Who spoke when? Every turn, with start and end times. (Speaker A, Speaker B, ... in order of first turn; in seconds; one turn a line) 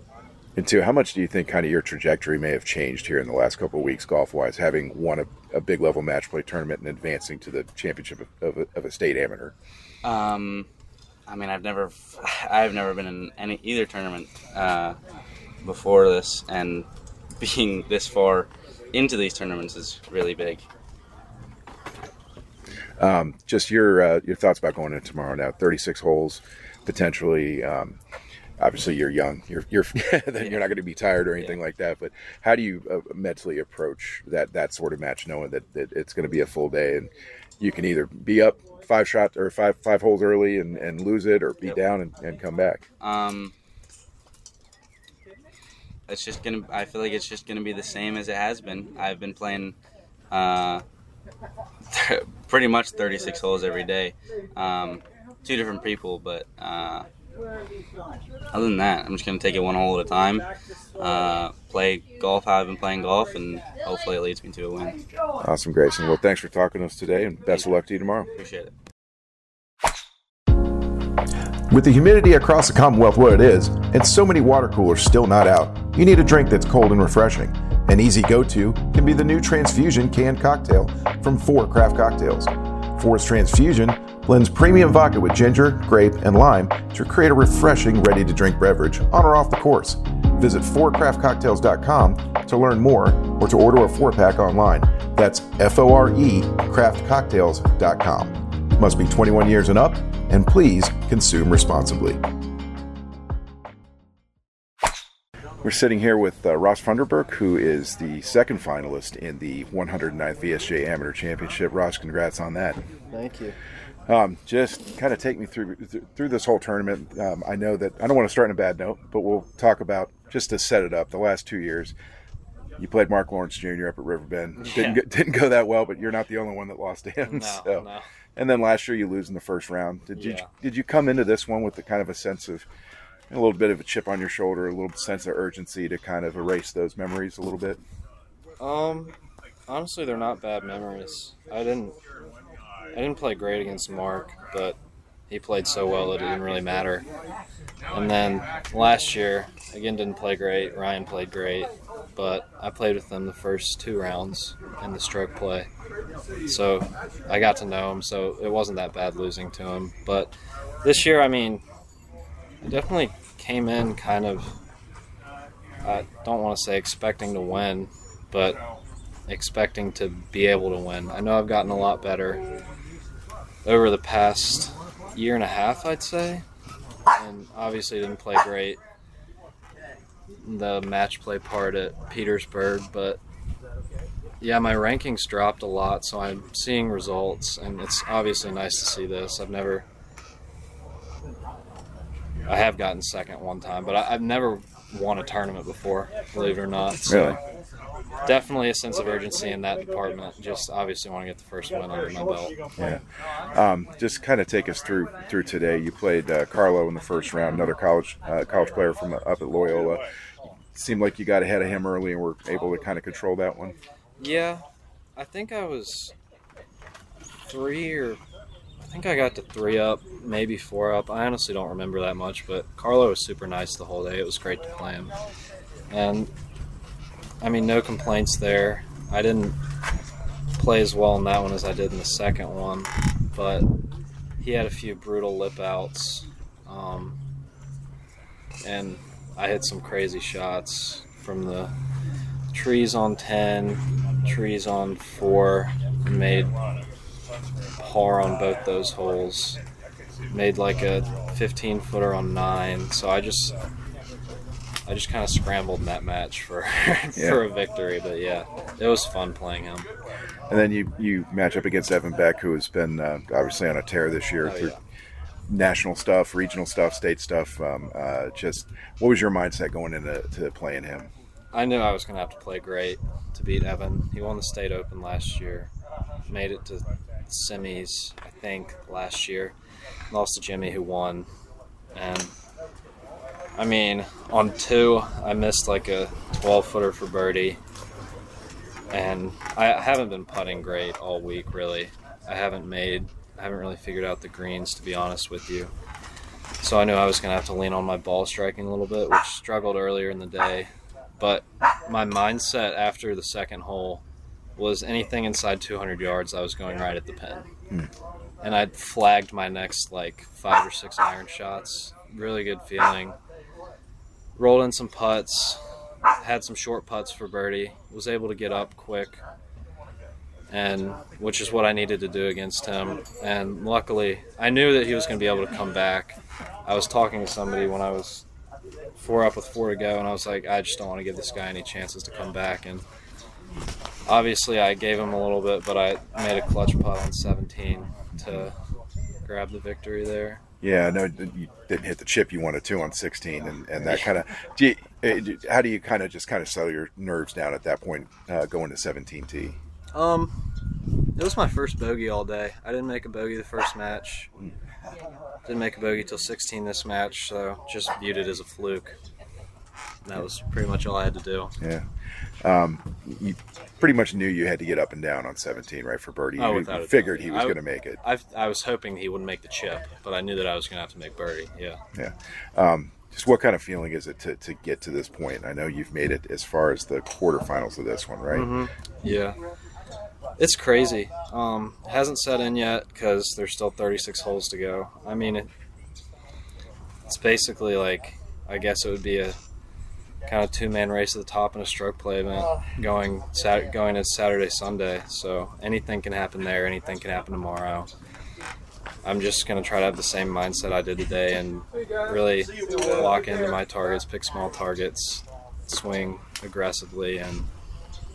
Speaker A: 0.6-9.5
Speaker B: 10.0-10.7
Speaker B: 11.3-15.0
Speaker B: 15.6-16.9
Speaker B: 17.4-20.6
Speaker A: 23.0-28.0
Speaker A: 28.6-42.8
Speaker B: 43.0-43.5
Speaker B: 46.1-49.7
Speaker B: 50.3-50.8
Speaker B: 51.9-57.1
Speaker B: 58.5-60.5
Speaker B: 61.0-65.0
Speaker A: 65.4-68.3
Speaker B: 68.3-68.7
Speaker A: 71.7-102.2
Speaker A: 105.6-112.8
Speaker C: 113.1-113.5
Speaker A: 114.1-121.9
Speaker A: 122.8-132.7
Speaker C: 127.2-128.0
Speaker C: 130.1-130.5
Speaker A: 133.3-137.8
Speaker C: 138.6-139.1
Speaker C: 139.7-141.9
Speaker C: 142.9-144.8
Speaker C: 145.3-147.0
Speaker C: 147.9-155.7
Speaker C: 156.4-160.3
Speaker C: 160.8-161.6
Speaker C: 162.6-164.5
Speaker C: 165.8-168.6
Speaker C: 169.3-172.4
Speaker C: 173.6-176.4
Speaker C: 177.2-178.8
Speaker C: 180.4-183.2
Speaker C: 184.4-189.8
Speaker C: 192.4-197.4
Speaker A: 197.1-197.4
Speaker C: 198.2-202.5
Speaker A: 203.5-210.0
Speaker A: 210.7-213.8
Speaker C: 214.2-214.6
Speaker C: 215.2-216.1
Speaker C: 217.5-218.2
Speaker C: 218.8-225.1
Speaker C: 225.9-226.3
Speaker C: 227.4-229.6
Speaker C: 230.6-233.7
Speaker C: 234.4-237.2
Speaker C: 238.6-241.7
Speaker C: 242.5-246.5
Speaker C: 247.8-249.6
Speaker C: 250.3-253.6
Speaker C: 254.8-259.9
Speaker A: 257.1-257.4
Speaker A: 260.5-264.7
Speaker C: 264.4-264.8
Speaker A: 265.5-271.1
Speaker C: 271.5-275.7
Speaker C: 276.3-279.5
Speaker C: 280.1-281.3
Speaker C: 281.9-282.3
Speaker C: 283.6-287.6
Speaker C: 288.9-295.7
Speaker C: 296.6-304.0
Speaker C: 304.6-307.5
Speaker C: 308.4-313.2
Speaker C: 314.4-315.6
Speaker C: 316.2-319.2
Speaker C: 320.5-328.2
Speaker C: 329.0-332.8
Speaker C: 334.1-338.5
Speaker C: 339.2-340.4
Speaker A: 340.6-349.6
Speaker C: 349.9-350.3
Speaker C: 351.1-354.3
Speaker C: 355.4-358.9
Speaker C: 360.0-361.5
Speaker A: 361.6-361.9
Speaker A: 362.4-368.0
Speaker C: 366.4-371.8
Speaker A: 371.9-378.6
Speaker C: 378.3-379.4
Speaker C: 380.4-385.5
Speaker C: 387.1-389.4
Speaker C: 390.2-397.9
Speaker C: 399.0-407.5